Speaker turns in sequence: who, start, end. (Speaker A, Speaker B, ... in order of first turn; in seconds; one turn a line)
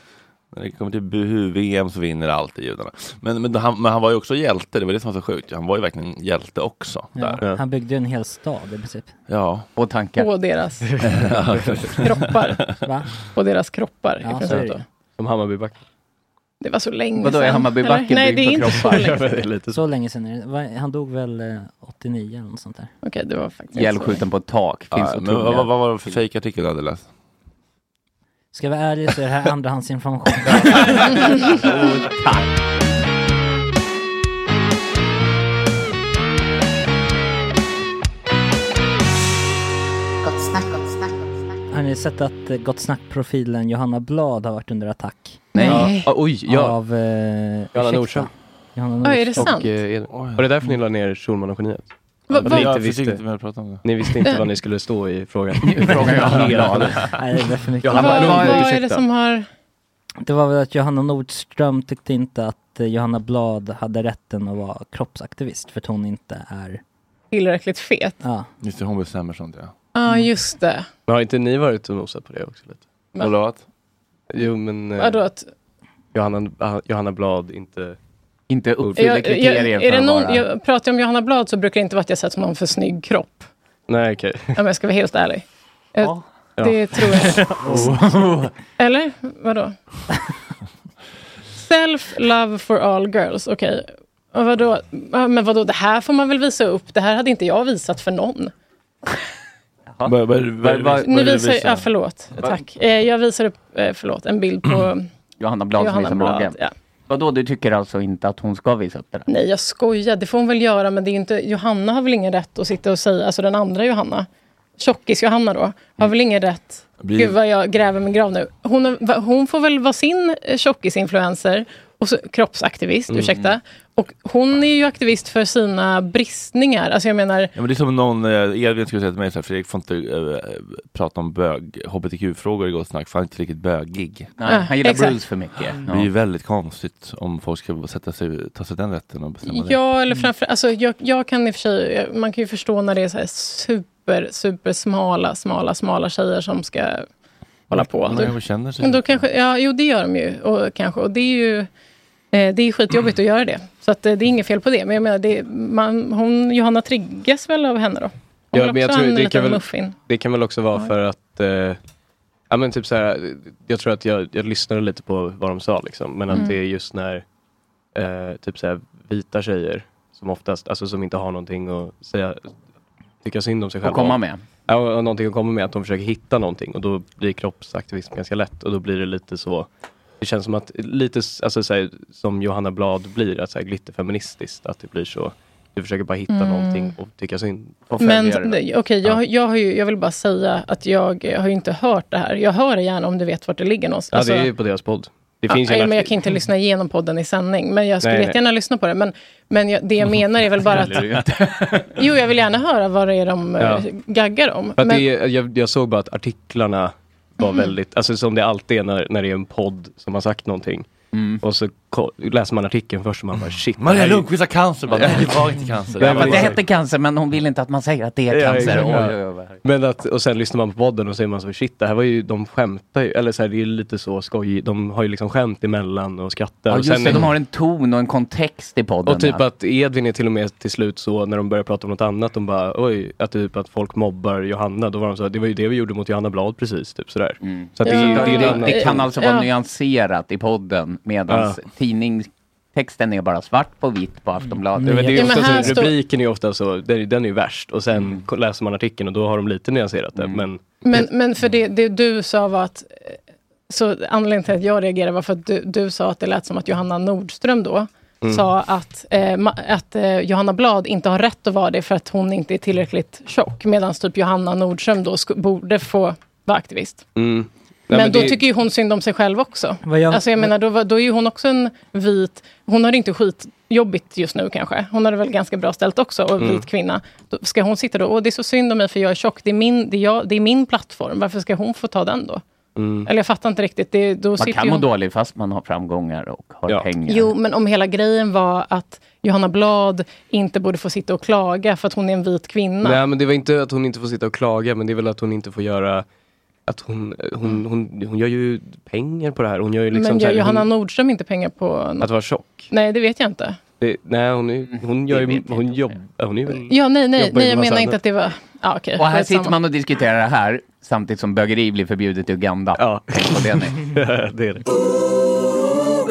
Speaker A: 0.5-7.4
Speaker B: 7.2-9.1
Speaker A: 9.3-9.7
Speaker C: 9.8-10.3
Speaker D: 10.2-10.9
Speaker E: 10.8-12.0
Speaker A: 11.0-12.6
Speaker D: 12.0-12.7
Speaker B: 12.8-13.1
Speaker D: 13.3-14.8
Speaker B: 14.2-14.8
Speaker E: 14.5-15.8
Speaker D: 16.6-19.4
Speaker C: 17.2-19.1
Speaker E: 18.8-19.8
Speaker B: 19.7-22.9
Speaker D: 23.0-24.2
Speaker C: 23.7-26.1
Speaker A: 24.9-27.1
Speaker B: 28.5-31.1
Speaker C: 30.6-32.5
Speaker B: 41.7-49.5
Speaker C: 45.5-46.0
Speaker D: 45.6-46.1
Speaker E: 45.6-46.8
Speaker E: 47.7-48.3
Speaker D: 49.0-49.8
Speaker E: 49.4-53.2
Speaker A: 50.1-50.4
Speaker D: 52.3-52.8
Speaker A: 52.4-54.1
Speaker E: 53.8-57.1
Speaker D: 54.2-54.5
Speaker C: 55.7-57.1
Speaker B: 57.1-58.6
Speaker E: 57.8-58.8
Speaker D: 57.9-59.5
Speaker C: 58.0-59.0
Speaker B: 60.2-66.8
Speaker D: 67.3-68.2
Speaker B: 68.2-68.5
Speaker A: 68.6-69.7
Speaker D: 70.0-70.9
Speaker E: 71.1-72.8
Speaker A: 73.2-73.6
Speaker E: 74.3-75.2
Speaker D: 75.0-75.5
Speaker E: 76.1-78.0
Speaker C: 78.5-80.5
Speaker D: 79.0-83.5
Speaker E: 83.9-84.6
Speaker D: 84.5-87.5
Speaker E: 86.6-88.0
Speaker C: 87.7-88.5
Speaker D: 88.8-89.8
Speaker D: 91.6-98.5
Speaker C: 99.9-101.1
Speaker A: 100.0-101.9
Speaker D: 101.0-105.1
Speaker C: 105.4-106.6
Speaker D: 105.8-106.7
Speaker C: 107.1-109.3
Speaker D: 109.3-127.5
Speaker A: 117.0-117.4
Speaker E: 123.1-123.4
Speaker A: 127.5-134.3
Speaker C: 134.4-136.1
Speaker D: 134.4-135.2
Speaker A: 135.8-139.8
Speaker D: 139.5-147.1
Speaker D: 147.7-151.7
Speaker A: 147.8-149.2
Speaker D: 152.3-160.0
Speaker E: 158.5-161.8
Speaker E: 162.5-167.2
Speaker D: 166.3-166.6
Speaker E: 167.9-172.5
Speaker E: 173.2-179.7
Speaker C: 173.8-174.4
Speaker E: 180.2-187.9
Speaker D: 186.3-186.9
Speaker C: 187.9-189.2
Speaker D: 188.0-194.5
Speaker E: 194.1-196.1
Speaker D: 195.5-201.1
Speaker E: 198.0-198.4
Speaker C: 200.7-201.9
Speaker D: 201.9-205.1
Speaker E: 203.6-203.8
Speaker E: 204.8-210.9
Speaker D: 207.4-207.7
Speaker C: 211.1-211.4
Speaker E: 211.4-214.3
Speaker A: 213.8-216.6
Speaker E: 214.9-215.4
Speaker E: 216.0-216.6
Speaker C: 216.0-219.6
Speaker E: 218.3-227.4
Speaker C: 226.7-229.4
Speaker E: 229.1-239.1
Speaker C: 237.4-245.7
Speaker D: 237.8-239.5
Speaker E: 241.3-241.6
Speaker B: 244.4-245.8
Speaker E: 244.8-251.1
Speaker D: 245.2-246.0
Speaker C: 247.9-248.2
Speaker C: 250.2-250.4
Speaker D: 250.8-253.2
Speaker D: 253.7-267.1
Speaker E: 258.2-258.5
Speaker E: 267.1-268.4
Speaker D: 267.9-282.4
Speaker B: 269.8-270.5
Speaker E: 276.4-276.7
Speaker E: 282.8-283.1
Speaker D: 283.1-284.9
Speaker C: 284.4-287.3
Speaker D: 287.1-293.0
Speaker E: 292.8-296.1
Speaker E: 296.7-300.7
Speaker D: 299.9-302.1
Speaker E: 302.0-302.7
Speaker D: 302.7-303.6
Speaker E: 303.8-308.0
Speaker C: 304.7-305.9
Speaker D: 306.7-309.6
Speaker C: 309.0-313.9
Speaker E: 312.8-314.6